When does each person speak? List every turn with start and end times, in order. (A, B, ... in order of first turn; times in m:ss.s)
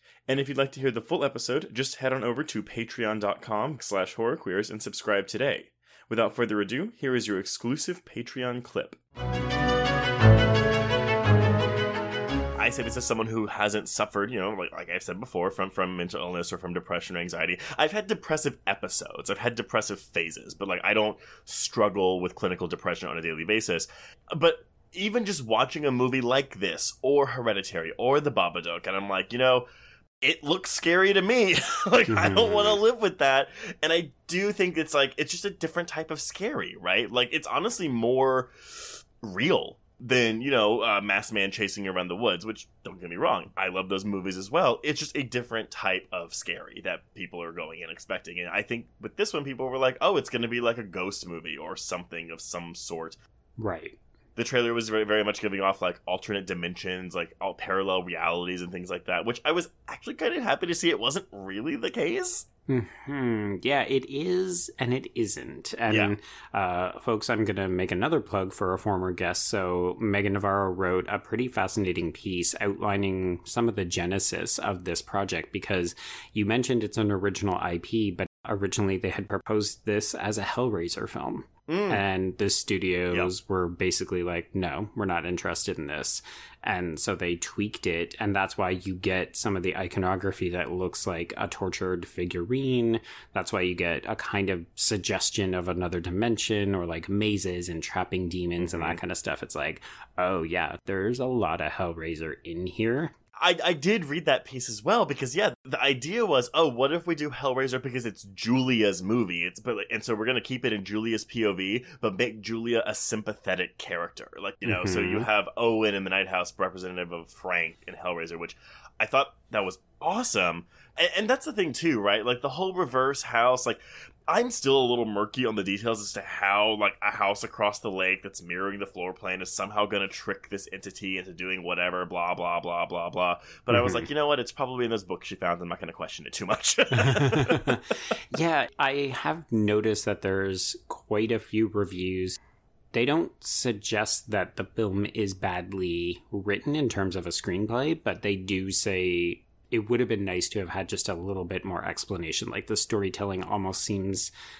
0:00.3-0:09.0 A
0:12.6-0:29.6 A
0:30.2-0:38.5 A
0:32.1-0:32.8 B
0:39.2-0:53.2 A
0:53.6-0:54.0 B
0:54.4-1:02.4 A
1:02.7-1:43.1 B
1:05.9-1:06.1 A
1:21.7-1:22.0 A
1:38.6-1:39.0 A
1:43.4-2:17.7 A
1:54.6-1:55.3 B
2:13.7-2:14.1 B
2:16.9-2:22.4 B
2:22.9-2:34.3 B